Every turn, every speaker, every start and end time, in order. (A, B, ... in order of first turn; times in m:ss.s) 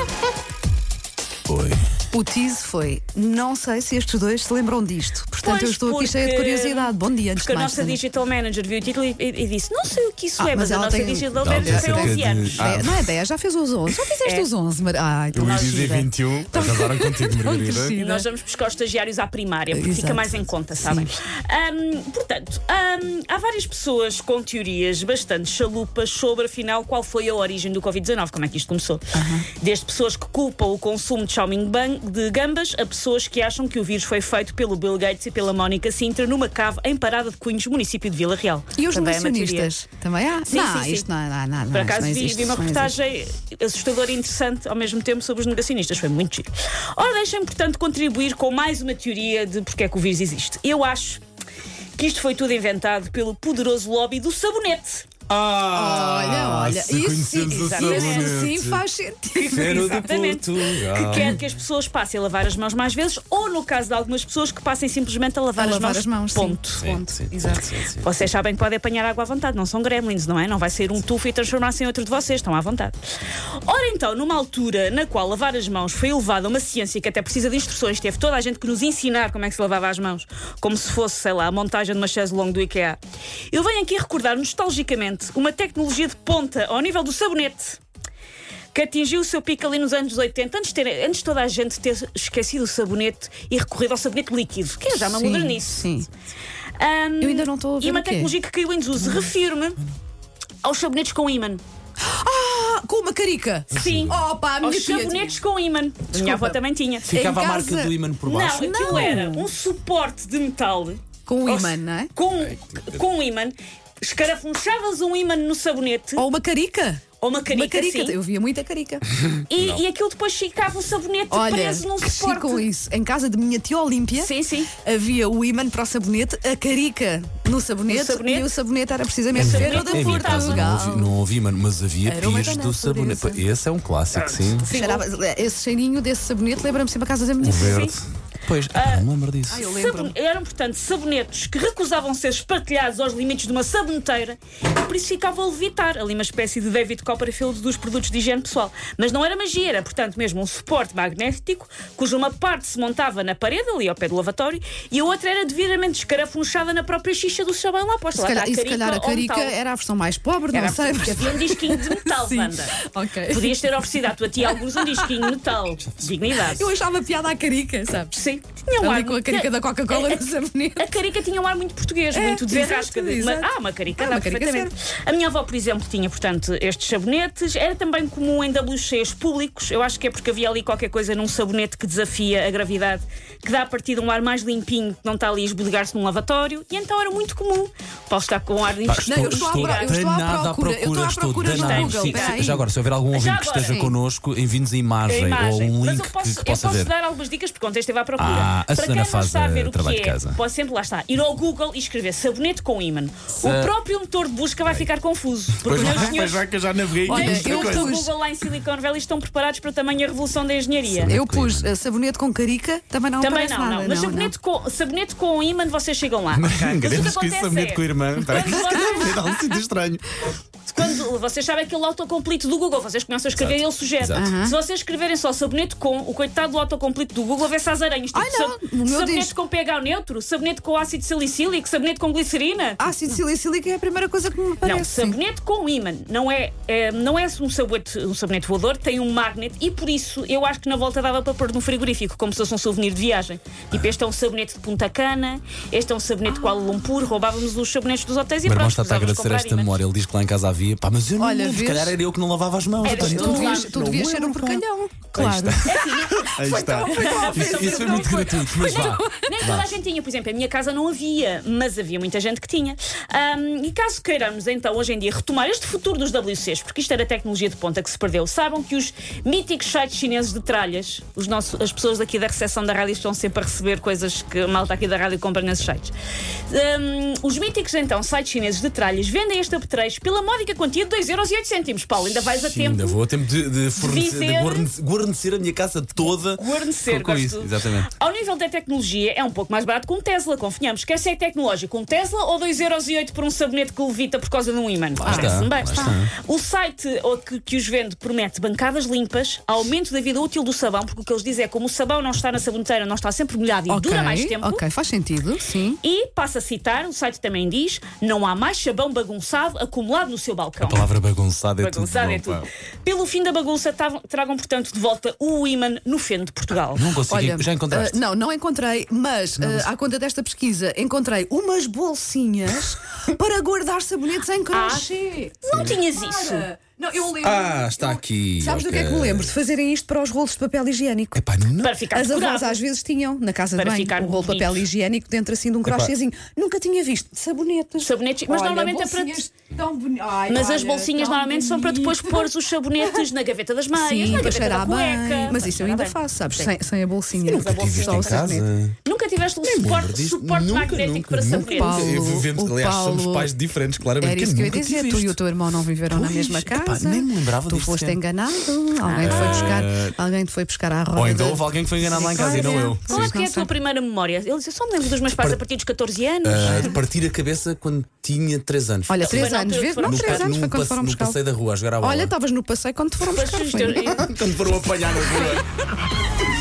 0:01.5-0:01.8 A
0:02.1-0:08.0 B
0:05.4-0:12.6 C
0:10.4-0:18.3 B
0:11.4-0:13.1 A
0:14.2-0:14.5 C
0:15.3-0:18.0 A
0:15.4-0:15.9 C
0:17.9-0:39.7 C
0:19.7-0:21.1 B
0:29.1-0:29.5 B
0:38.8-0:43.0 B
0:40.4-0:41.1 C
0:41.7-0:51.2 C
0:52.0-0:55.1 C
0:55.3-0:58.8 A
0:55.7-1:00.1 B
0:57.6-0:58.3 C
0:59.3-1:06.8 C
0:59.5-1:01.4 A
1:05.6-1:07.7 B
1:06.8-1:08.1 A
1:08.0-1:13.0 C
1:13.6-1:27.8 C
1:28.7-1:35.9 C
1:35.0-1:36.1 B
1:36.8-1:39.8 C
1:37.2-1:38.3 B
1:39.0-1:39.3 B
1:40.6-1:41.6 C
1:42.0-1:45.4 B
1:43.7-1:44.2 A
1:43.7-1:47.2 C
1:46.1-1:48.0 B
1:47.1-1:49.2 A
1:48.3-1:56.3 C
1:48.5-1:49.5 B
1:51.3-1:52.1 B
1:52.4-1:53.0 A
1:56.2-1:59.0 B
1:57.2-1:58.2 C
1:59.5-2:02.7 C
2:01.3-2:11.2 B
2:04.2-2:04.7 C
2:07.9-2:08.5 C
2:09.3-2:10.7 C
2:09.4-2:14.7 A
2:12.0-2:13.4 B
2:14.1-2:15.1 C
2:14.7-2:17.9 B
2:17.4-2:18.0 C
2:17.4-2:19.6 A
2:18.7-2:19.1 C
2:19.5-2:20.2 B
2:19.6-2:39.6 C
2:38.2-2:45.4 B
2:40.5-2:42.8 C
2:43.3-2:46.7 C
2:46.4-2:48.2 B
2:48.1-3:10.0 C
2:48.8-2:50.9 B
2:52.1-2:54.7 B
3:08.8-3:16.9 A
3:09.0-3:12.6 B
3:11.4-3:12.4 C
3:13.1-3:13.8 C
3:13.7-3:13.9 B
3:15.1-3:26.5 C
3:18.2-3:20.4 A
3:23.4-3:23.7 A
3:25.5-3:27.9 A
3:25.8-3:26.2 B
3:27.0-3:31.2 C
3:27.1-3:28.1 B
3:30.9-3:31.7 A
3:31.1-3:34.3 B
3:33.2-3:39.3 C
3:36.3-3:40.2 A
3:38.4-3:39.3 B
3:40.7-3:52.9 C
3:43.4-3:44.3 A
3:44.1-3:44.6 B
3:48.1-3:49.3 B
3:52.8-3:55.2 B
3:54.6-4:09.8 C
4:06.3-4:06.9 B
4:08.4-4:19.7 A
4:11.2-4:12.0 B
4:12.8-4:13.8 C
4:12.8-4:19.3 B
4:16.8-4:36.0 C
4:36.5-4:43.0 C
4:42.2-4:47.9 A
4:43.8-4:44.7 C
4:46.2-5:04.6 C
4:55.0-4:56.1 A
4:55.0-4:56.0 B
5:03.7-5:05.8 B
5:05.8-5:10.9 C
5:10.6-5:12.5 A
5:11.6-5:16.9 C
5:16.7-5:18.0 A
5:17.1-5:31.2 B
5:19.4-5:19.7 A
5:24.5-5:24.9 C
5:25.4-5:26.5 C
5:27.2-5:29.3 A
5:31.2-5:31.8 A
5:31.6-5:32.6 C
5:31.9-5:43.1 B
5:33.6-5:34.6 C
5:35.6-5:35.9 A
5:37.8-5:39.2 C
5:40.3-5:46.5 C
5:43.7-5:48.5 B
5:47.2-5:48.8 A
5:47.2-5:48.3 C
5:48.8-5:51.9 C
5:49.4-5:55.2 A
5:51.4-5:53.3 B
5:54.0-6:03.5 B
5:55.9-5:58.0 A
5:58.8-5:59.6 C
5:59.0-6:00.0 A
6:01.0-6:03.2 A
6:02.2-6:06.8 C
6:06.2-6:12.1 A
6:08.9-6:11.2 B
6:09.0-6:10.3 C
6:11.8-6:14.1 B
6:13.0-6:14.1 C
6:13.9-6:15.5 A